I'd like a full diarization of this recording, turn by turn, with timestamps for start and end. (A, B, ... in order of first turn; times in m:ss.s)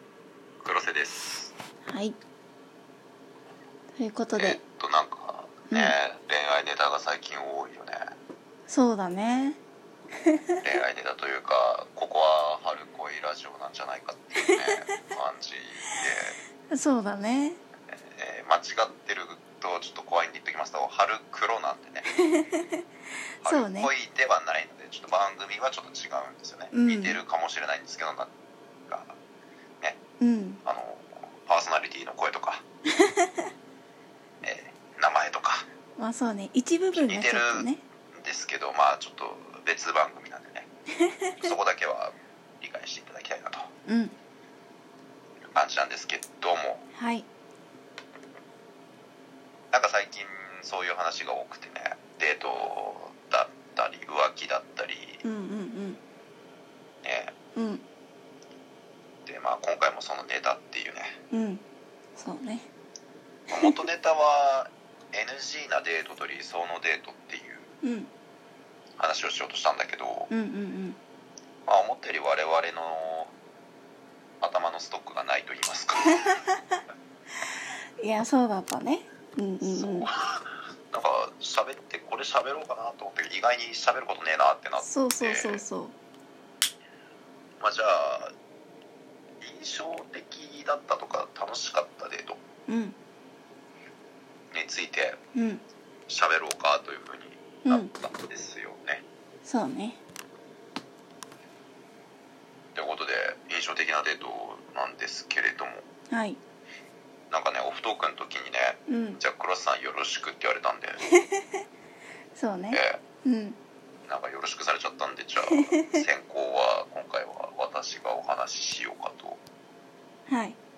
0:00.6-0:01.5 A
0:01.9-0:02.2 B
0:03.9-0:04.6 B
0:04.4-0:08.0 A
0:05.7-0:05.9 B
0:08.7-0:09.6 B
0:10.2-0:10.6 B
0:10.6-0:16.4 A
0:14.4-0:14.7 B
0:16.7-0:17.6 B
0:17.9-0:22.0 A
0:22.1-0:22.8 B
0:23.4-0:23.9 B
0:23.4-0:28.3 A
0:26.7-0:27.2 B
0:28.9-0:29.2 A
0:30.2-0:30.6 B
0:30.6-0:32.6 A
0:33.0-0:33.4 B
0:34.4-0:35.7 A
0:36.0-0:37.8 B
0:37.0-0:40.7 A
0:41.0-0:41.5 B
0:41.4-0:43.6 A
0:43.9-0:44.2 B
0:45.4-0:46.8 A
0:46.9-0:47.3 B
0:49.7-0:55.2 A
0:55.2-0:56.0 B
0:57.0-0:57.3 A
0:57.6-0:57.8 B
0:59.3-1:01.2 A
1:01.3-1:01.6 B
1:02.2-1:02.7 B
1:03.5-1:03.8 B
1:03.5-1:07.7 A
1:07.8-1:08.1 B
1:09.0-1:10.3 A
1:10.3-1:11.0 B
1:11.6-1:13.3 A
1:14.4-1:16.4 A
1:16.2-1:16.8 B
1:18.0-1:20.1 B
1:19.6-1:25.6 A
1:24.8-1:25.9 B
1:27.6-1:28.3 A
1:29.4-1:32.4 A
1:32.7-1:33.0 B
1:34.5-1:35.2 A
1:35.3-1:35.6 B
1:36.1-1:39.0 A
1:37.6-1:37.9 B
1:39.4-1:40.0 B
1:42.7-1:45.8 A
1:46.1-1:46.4 B
1:47.3-1:51.0 A
1:48.9-1:49.2 B
1:51.1-1:51.6 B
1:52.3-1:53.6 B
1:52.7-1:53.0 A
1:54.1-1:59.4 A
1:55.5-1:56.0 B
2:00.3-2:00.6 B